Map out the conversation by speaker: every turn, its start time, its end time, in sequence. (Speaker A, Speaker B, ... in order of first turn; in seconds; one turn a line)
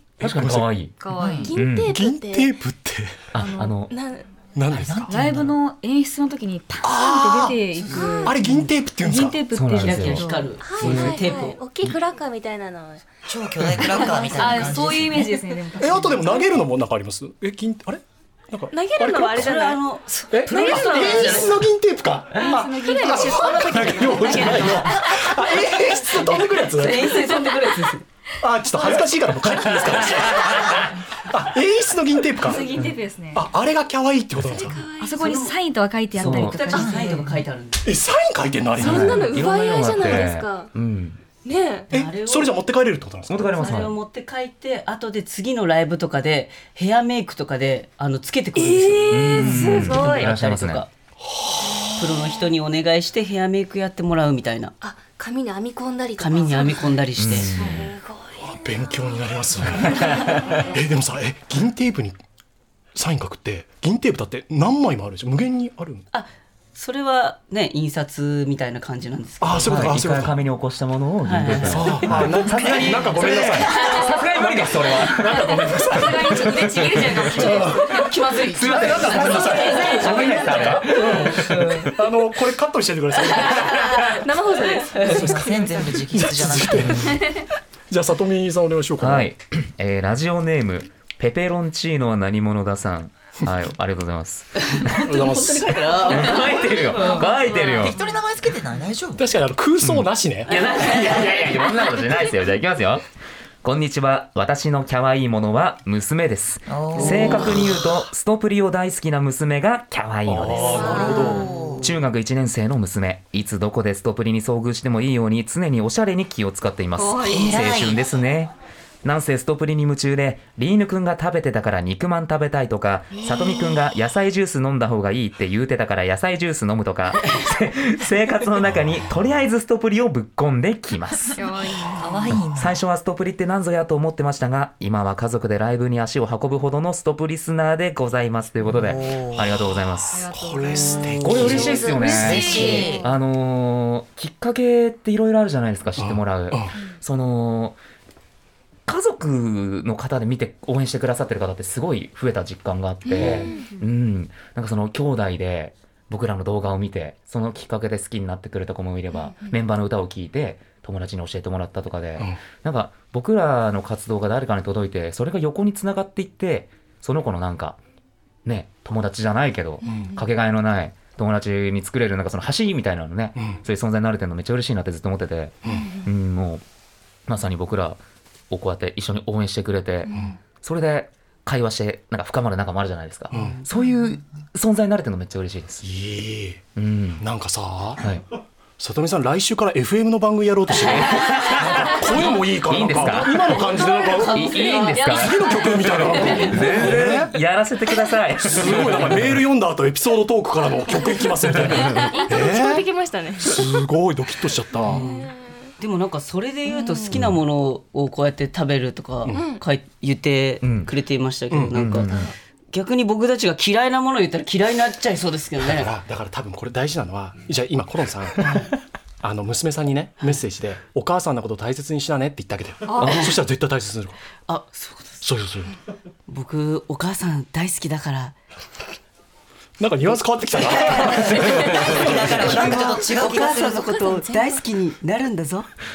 Speaker A: 0.2-0.7
Speaker B: 0.2-0.9
Speaker C: 1.0-1.5
Speaker D: 1.2-1.5
Speaker E: 1.4-2.6
Speaker B: 1.5-2.0
Speaker A: 1.8-3.3
Speaker B: 3.3-3.9
Speaker C: 3.4-3.7
Speaker E: 3.6-4.3
Speaker A: 4.5-5.2
Speaker D: 4.7-5.5
Speaker C: 5.1-10.5
Speaker A: 6.8-9.4
Speaker E: 7.8-8.4
Speaker B: 9.5-11.3
Speaker F: 9.8-11.6
Speaker E: 10.6-13.1
Speaker D: 13.3-15.2
Speaker E: 13.7-15.2
Speaker C: 14.1-16.5
Speaker A: 15.8-19.6
Speaker E: 18.7-21.2
Speaker F: 19.3-21.7
Speaker A: 20.3-27.2
Speaker C: 20.5-21.5
Speaker C: 22.4-25.1
Speaker E: 23.1-25.3
Speaker F: 24.3-24.8
Speaker F: 26.3-28.1
Speaker A: 28.4-32.8
Speaker C: 32.4-33.5
Speaker A: 33.3-34.8
Speaker E: 34.5-35.5
Speaker C: 35.0-37.3
Speaker F: 35.2-35.5
Speaker F: 36.2-38.0
Speaker B: 36.2-36.8
Speaker D: 36.7-37.4
Speaker A: 37.8-39.5
Speaker E: 38.8-40.7
Speaker B: 38.8-41.2
Speaker E: 41.4-41.9
Speaker F: 41.9-42.6
Speaker A: 41.9-43.7
Speaker B: 43.3-43.9
Speaker F: 43.6-50.9
Speaker E: 48.6-50.3
Speaker B: 49.1-50.9
Speaker A: 51.2-52.0
Speaker E: 51.7-52.5
Speaker F: 51.9-54.7
Speaker E: 54.8-60.8
Speaker F: 56.2-57.7
Speaker B: 57.2-57.9
Speaker A: 58.4-62.2
Speaker B: 60.0-60.6
Speaker A: 63.0-66.0
Speaker F: 66.1-69.9
Speaker A: 69.4-70.4
Speaker B: 69.6-77.6
Speaker F: 71.2-72.2
Speaker A: 71.5-84.2
Speaker C: 73.7-74.2
Speaker C: 75.2-78.1
Speaker F: 77.4-82.0
Speaker B: 78.4-81.9
Speaker C: 79.1-80.8
Speaker F: 83.3-84.0
Speaker E: 83.7-85.8
Speaker F: 84.9-85.3
Speaker D: 85.0-87.2
Speaker A: 85.0-85.5
Speaker A: 86.1-89.3
Speaker B: 89.0-95.0
Speaker F: 94.6-97.8
Speaker A: 94.9-96.3
Speaker B: 96.0-98.0
Speaker E: 97.0-97.8
Speaker D: 97.8-99.2
Speaker A: 99.2-101.3
Speaker B: 99.8-103.1
Speaker F: 100.5-101.7
Speaker B: 103.6-111.1
Speaker D: 106.7-107.7
Speaker A: 107.0-107.9
Speaker A: 110.3-111.5
Speaker E: 110.7-111.8
Speaker D: 111.0-111.9
Speaker B: 111.8-118.5
Speaker C: 117.0-117.6
Speaker D: 117.3-118.0
Speaker B: 119.0-131.4
Speaker D: 123.3-123.6
Speaker C: 131.4-132.3
Speaker D: 132.0-132.8
Speaker B: 132.3-140.3
Speaker D: 138.8-139.7
Speaker A: 139.8-142.0
Speaker C: 140.1-143.0
Speaker B: 141.2-147.8
Speaker E: 141.6-143.1
Speaker D: 142.0-143.0
Speaker A: 146.0-146.8
Speaker B: 148.9-167.8
Speaker E: 153.0-153.8
Speaker A: 153.2-153.4
Speaker E: 159.1-159.6
Speaker B: 168.4-176.6
Speaker E: 169.8-170.2
Speaker A: 169.8-170.2
Speaker A: 173.4-173.6
Speaker E: 175.7-176.1
Speaker B: 177.3-185.8
Speaker E: 180.1-180.4
Speaker A: 183.3-183.6
Speaker A: 185.8-186.7
Speaker B: 186.8-187.2
Speaker A: 187.2-188.1
Speaker B: 188.0-188.2
Speaker A: 188.8-197.4
Speaker B: 190.8-199.4
Speaker C: 193.8-196.9
Speaker A: 198.4-202.9
Speaker B: 201.5-201.8
Speaker E: 201.8-203.8
Speaker C: 201.9-202.5
Speaker A: 203.4-205.0
Speaker E: 204.8-205.7
Speaker F: 204.8-212.1
Speaker E: 206.7-207.2
Speaker B: 207.1-207.4
Speaker E: 209.3-209.6
Speaker B: 210.6-210.9
Speaker A: 211.5-212.1
Speaker B: 211.7-212.3
Speaker E: 212.0-212.3
Speaker F: 212.7-215.9
Speaker A: 215.6-224.2
Speaker C: 222.9-223.3
Speaker B: 223.0-223.3
Speaker F: 224.5-225.2
Speaker A: 225.2-225.8
Speaker F: 226.3-228.4
Speaker A: 229.8-232.8
Speaker F: 230.6-235.7
Speaker D: 231.4-233.9
Speaker E: 232.8-234.6